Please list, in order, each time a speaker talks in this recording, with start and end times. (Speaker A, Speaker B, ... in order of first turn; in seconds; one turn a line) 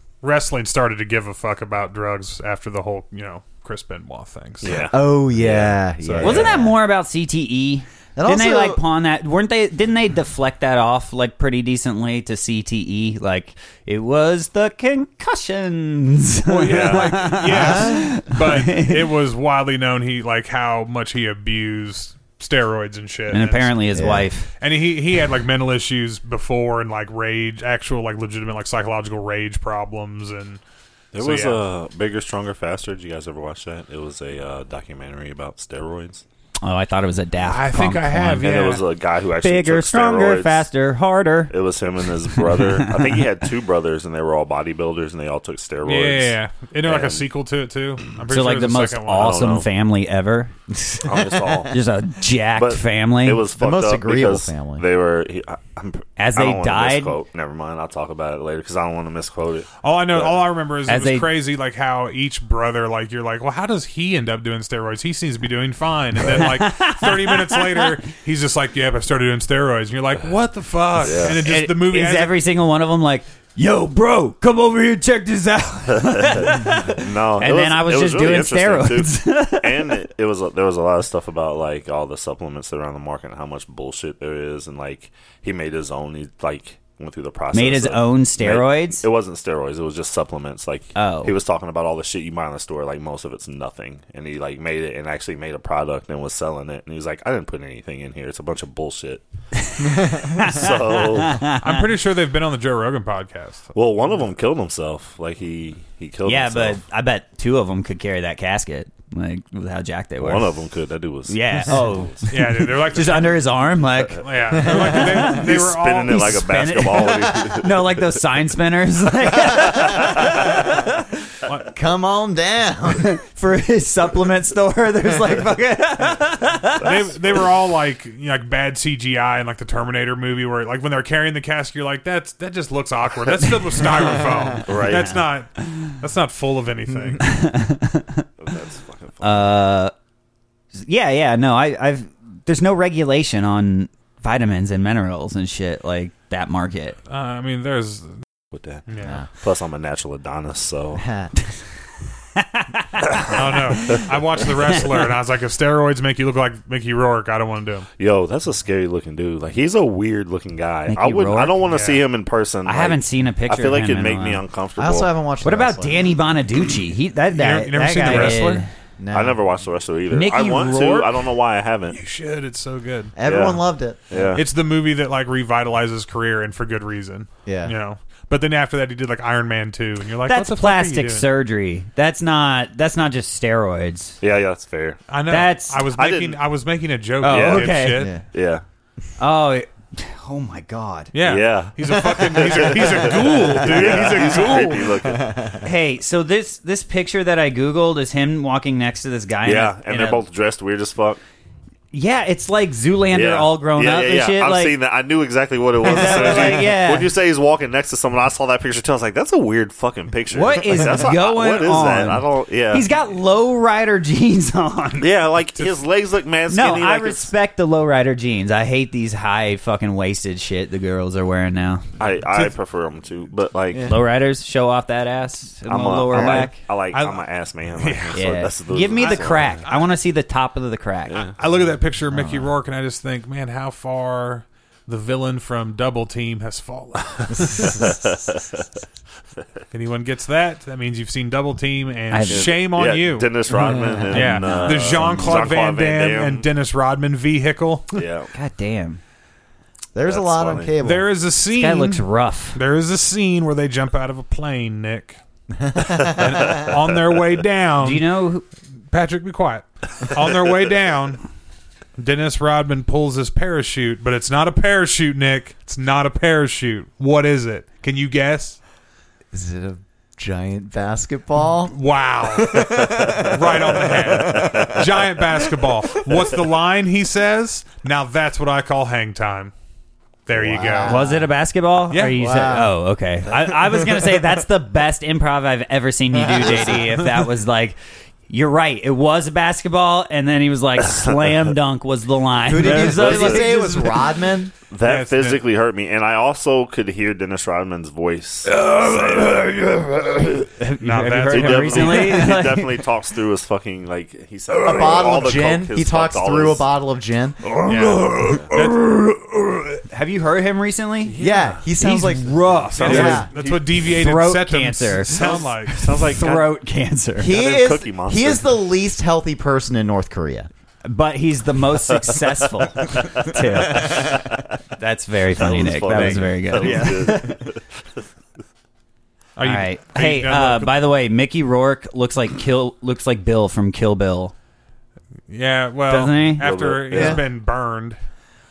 Speaker A: 0.2-4.8
Speaker B: 4.6-5.8
Speaker C: 4.9-6.8
Speaker A: 6.0-6.5
Speaker D: 6.2-19.1
Speaker C: 8.2-8.8
Speaker A: 16.5-24.0
Speaker B: 16.7-17.4
Speaker C: 17.4-18.1
Speaker D: 23.3-24.5
Speaker C: 23.9-24.2
Speaker A: 24.6-30.6
Speaker B: 31.1-36.2
Speaker A: 31.2-31.6
Speaker D: 36.6-38.5
Speaker A: 37.5-38.8
Speaker B: 38.4-40.6
Speaker D: 39.4-41.5
Speaker B: 41.5-47.2
Speaker D: 42.3-43.2
Speaker A: 45.8-49.5
Speaker D: 48.3-50.6
Speaker B: 49.1-49.6
Speaker B: 51.0-51.7
Speaker C: 51.0-51.7
Speaker D: 51.7-53.4
Speaker B: 52.6-60.4
Speaker C: 53.6-54.8
Speaker D: 56.2-57.1
Speaker A: 59.8-72.3
Speaker D: 60.9-61.3
Speaker D: 66.2-68.0
Speaker B: 71.0-71.4
Speaker D: 71.4-79.9
Speaker B: 75.9-99.2
Speaker D: 87.5-89.0
Speaker D: 91.0-91.3
Speaker D: 99.6-101.8
Speaker B: 100.2-101.4
Speaker A: 101.5-103.7
Speaker B: 103.7-106.8
Speaker D: 106.3-110.5
Speaker B: 110.2-112.3
Speaker D: 111.3-115.5
Speaker A: 112.3-113.4
Speaker A: 114.2-116.3
Speaker B: 115.1-118.2
Speaker D: 116.1-121.1
Speaker C: 119.5-120.7
Speaker B: 119.8-120.3
Speaker A: 121.5-121.7
Speaker C: 121.7-123.1
Speaker D: 123.0-127.1
Speaker A: 126.8-137.3
Speaker B: 134.6-135.1
Speaker D: 134.9-135.2
Speaker D: 137.2-138.2
Speaker B: 138.4-139.5
Speaker D: 139.2-139.9
Speaker D: 140.8-147.0
Speaker A: 147.1-148.1
Speaker B: 148.5-151.0
Speaker A: 148.9-149.2
Speaker C: 149.0-149.3
Speaker C: 150.9-151.3
Speaker D: 152.3-154.0
Speaker B: 153.1-153.4
Speaker A: 153.3-157.9
Speaker B: 158.0-165.1
Speaker D: 160.9-161.6
Speaker A: 161.7-162.0
Speaker D: 162.7-164.4
Speaker C: 164.8-166.2
Speaker D: 165.4-168.7
Speaker A: 167.3-168.6
Speaker B: 168.1-168.3
Speaker C: 169.0-169.4
Speaker B: 169.1-172.0
Speaker D: 170.1-171.2
Speaker A: 171.9-173.1
Speaker C: 173.2-174.3
Speaker B: 173.2-174.4
Speaker A: 174.3-181.3
Speaker C: 177.4-177.8
Speaker D: 180.2-184.2
Speaker B: 184.2-185.0
Speaker A: 185.1-188.1
Speaker D: 185.3-185.8
Speaker B: 185.9-186.4
Speaker D: 187.2-188.1
Speaker B: 187.3-187.7
Speaker C: 188.0-188.2
Speaker B: 188.3-188.6
Speaker D: 189.2-191.1
Speaker A: 191.1-194.9
Speaker B: 191.2-195.3
Speaker C: 192.6-192.9
Speaker C: 193.8-194.1
Speaker C: 194.9-195.7
Speaker D: 195.6-200.2
Speaker B: 199.4-201.2
Speaker D: 201.9-204.7
Speaker B: 203.1-212.9
Speaker D: 205.8-207.1
Speaker C: 205.9-206.6
Speaker D: 210.3-215.1
Speaker B: 215.0-217.3
Speaker D: 216.5-221.8
Speaker B: 222.0-223.9
Speaker D: 223.8-226.6
Speaker B: 225.7-229.6
Speaker C: 226.1-226.5
Speaker A: 226.9-227.2
Speaker A: 227.8-229.9
Speaker D: 228.1-231.3
Speaker B: 231.1-231.3
Speaker A: 231.4-237.9
Speaker C: 232.1-232.5
Speaker C: 237.3-237.8
Speaker B: 237.6-238.6
Speaker A: 239.7-243.3
Speaker D: 242.1-242.5
Speaker B: 242.3-246.5
Speaker C: 243.6-244.1
Speaker D: 244.0-245.5
Speaker A: 244.1-248.0
Speaker B: 247.9-248.3
Speaker D: 248.3-249.0
Speaker C: 249.9-251.1
Speaker B: 250.1-250.7
Speaker A: 250.8-255.2
Speaker D: 251.5-252.6
Speaker C: 255.6-256.6
Speaker A: 256.0-258.0
Speaker D: 257.8-258.4
Speaker A: 258.9-261.2
Speaker A: 262.0-268.6
Speaker C: 269.3-271.7
Speaker A: 271.7-279.5
Speaker C: 272.2-274.7
Speaker B: 273.1-274.9
Speaker A: 280.2-281.1
Speaker C: 280.3-281.3
Speaker D: 280.9-287.8
Speaker A: 281.9-282.2
Speaker C: 282.1-282.7
Speaker C: 286.1-286.9
Speaker D: 288.3-294.1
Speaker B: 290.8-291.5
Speaker C: 292.5-294.5
Speaker B: 292.6-293.5
Speaker B: 294.7-299.3
Speaker A: 294.8-295.4
Speaker D: 298.4-302.8
Speaker A: 300.8-302.3
Speaker B: 301.3-306.6
Speaker C: 304.6-307.4
Speaker D: 307.4-311.1
Speaker A: 307.6-309.0
Speaker B: 311.1-311.6
Speaker C: 311.2-313.3
Speaker D: 311.8-313.2
Speaker A: 312.5-315.9
Speaker B: 312.7-313.6
Speaker D: 313.8-317.4
Speaker B: 315.1-316.5
Speaker C: 317.2-320.5
Speaker B: 317.3-318.5
Speaker D: 320.8-327.3
Speaker B: 322.8-324.4
Speaker C: 323.7-324.3
Speaker B: 325.3-327.6
Speaker C: 325.4-327.4
Speaker A: 329.4-330.7
Speaker D: 329.4-334.3
Speaker A: 335.3-338.0
Speaker D: 335.9-336.5
Speaker B: 336.4-337.2
Speaker C: 336.9-337.2